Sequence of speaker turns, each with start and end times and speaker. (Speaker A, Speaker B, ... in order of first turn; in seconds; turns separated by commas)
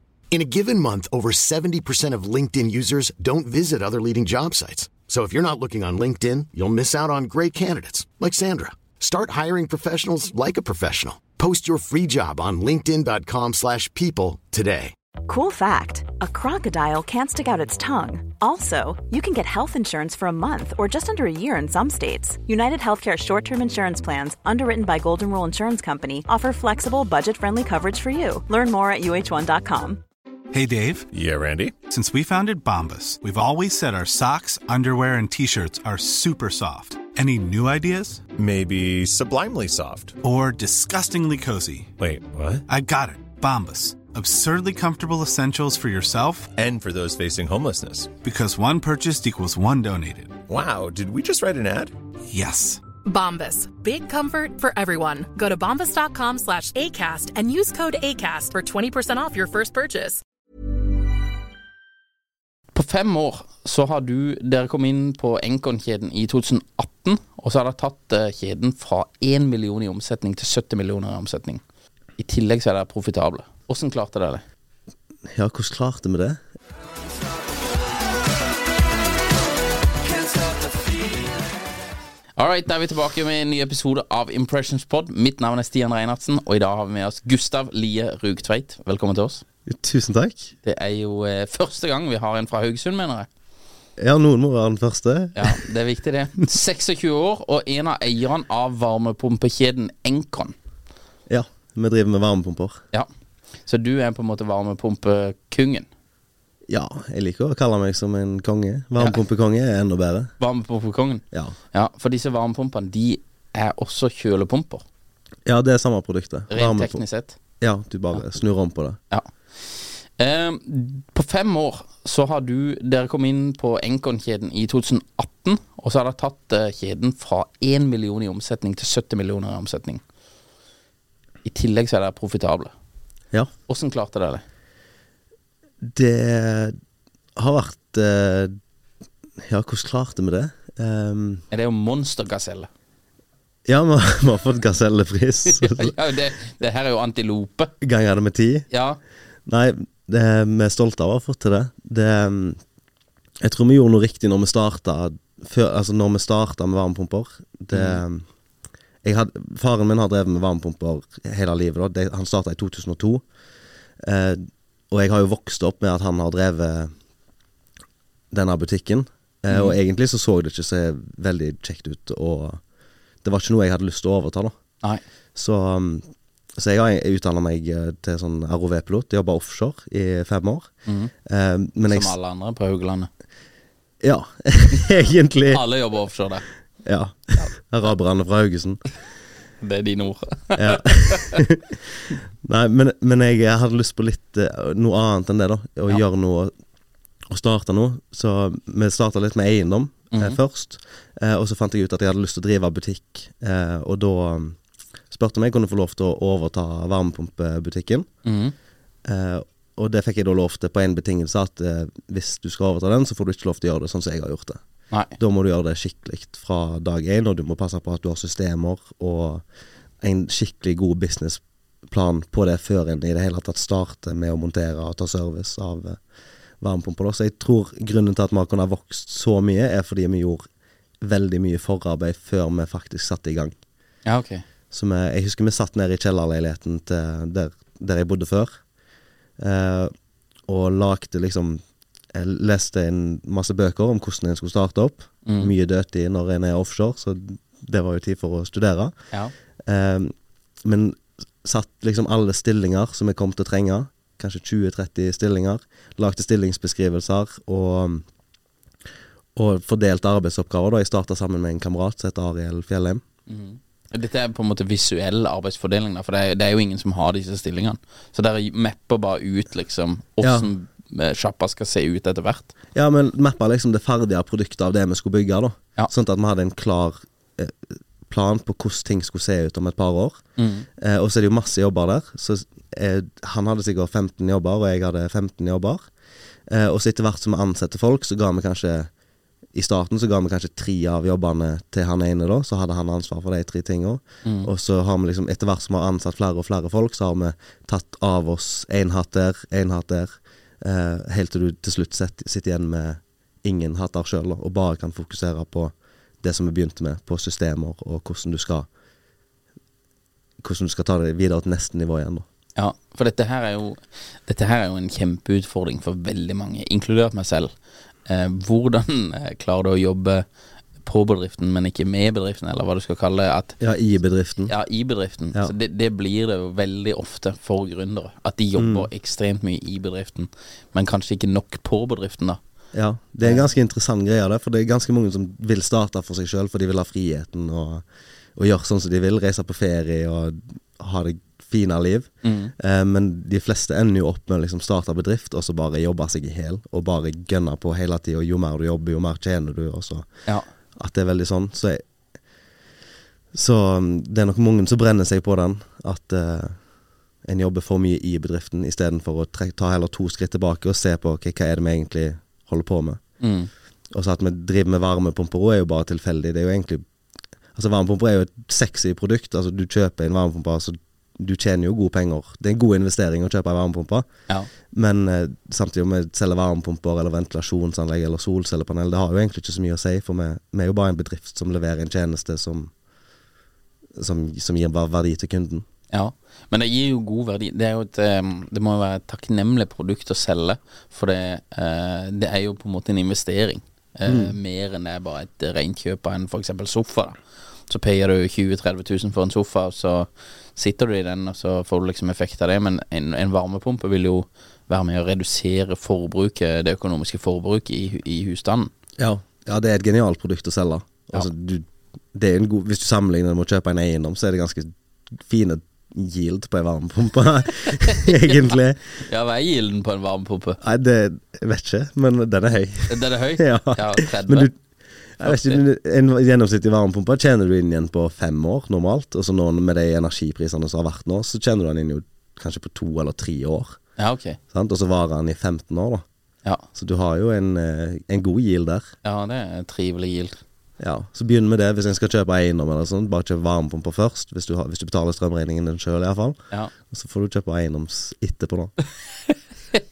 Speaker A: 0.3-14.9, Speaker B: 15.2-30.0, Speaker C: 30.5-31.1, Speaker D: 31.1-31.8, Speaker C: 31.8-38.2, Speaker D: 38.4-40.2, Speaker C: 40.2-41.9, Speaker D: 42.0-42.6, Speaker C: 42.7-46.6, Speaker D: 46.5-48.1, Speaker C: 48.2-50.4, Speaker D: 50.5-51.9, Speaker C: 52.3-52.8, Speaker E: 53.0-60.2, Speaker F: 62.7-71.6, Speaker F: 72.2-74.4, Speaker G: 75.2-76.4, Speaker F: 82.4-89.4, Speaker G: 89.7-90.5, Speaker F: 90.6-93.3, Speaker G: 94.0-95.6, Speaker F: 95.3-100.5, Speaker G: 101.3-102.8, Speaker F: 103.7-105.9, Speaker G: 106.7-110.3, Speaker F: 110.4-114.8, Speaker G: 115.5-117.0, Speaker F: 116.5-117.4, Speaker G: 117.6-119.0, Speaker F: 119.1-130.0, Speaker F: 131.4-132.7, Speaker F: 133.7-134.4, Speaker G: 135.8-136.8, Speaker G: 137.3-138.6, Speaker G: 139.4-141.4, Speaker F: 141.5-142.7, Speaker G: 143.7-145.9, Speaker F: 145.5-147.7, Speaker G: 147.8-148.7, Speaker F: 148.7-149.0, Speaker G: 149.4-152.6, Speaker G: 153.4-158.2, Speaker F: 157.7-158.0, Speaker G: 159.0-163.2, Speaker G: 164.0-166.9, Speaker G: 168.3-172.6, Speaker F: 169.5-169.8, Speaker G: 173.2-174.5, Speaker G: 175.3-180.7, Speaker F: 180.8-181.1, Speaker G: 181.2-182.1, Speaker F: 181.9-183.1, Speaker G: 184.0-185.6, Speaker F: 185.5-186.5, Speaker G: 186.8-188.8, Speaker F: 189.6-191.4, Speaker G: 190.6-191.7, Speaker G: 192.4-196.5, Speaker G: 197.3-204.6, Speaker F: 200.1-200.4, Speaker G: 205.1-208.1, Speaker F: 208.2-208.5, Speaker G: 209.0-214.6, Speaker G: 215.2-219.4, Speaker G: 220.0-226.0, Speaker G: 226.6-230.5, Speaker G: 231.0-233.6, Speaker F: 234.1-234.4, Speaker G: 234.7-238.6, Speaker G: 239.4-239.9, Speaker G: 240.5-241.6, Speaker G: 242.1-248.9, Speaker F: 245.2-245.5, Speaker G: 249.6-258.1, Speaker G: 259.4-263.0, Speaker F: 263.3-272.5, Speaker G: 270.2-270.5, Speaker G: 272.7-280.2, Speaker F: 280.4-280.7, Speaker G: 280.8-285.9, Speaker G: 286.4-288.9, Speaker G: 289.5-308.7, Speaker F: 294.2-294.5, Speaker G: 310.4-312.2, Speaker F: 312.6-317.5, Speaker F: 318.1-320.2, Speaker F: 320.8-323.6, Speaker G: 323.6-324.5, Speaker F: 324.5-332.4, Speaker G: 328.6-328.9, Speaker G: 332.7-351.8, Speaker F: 333.2-333.5, Speaker F: 342.2-342.5, Speaker G: 353.3-356.6, Speaker G: 357.2-363.0, Speaker F: 363.2-363.5, Speaker G: 363.9-366.8, Speaker G: 367.5-374.1, Speaker G: 374.6-382.7, Speaker G: 383.9-385.6, Speaker F: 385.9-408.7, Speaker G: 394.1-394.4, Speaker G: 409.0-418.8, Speaker F: 418.0-420.6, Speaker G: 420.6-433.8, Speaker F: 422.9-424.5, Speaker F: 425.2-425.6, Speaker F: 434.0-434.4, Speaker G: 434.5-436.0, Speaker G: 436.7-438.9, Speaker F: 439.0-440.4, Speaker G: 440.8-448.7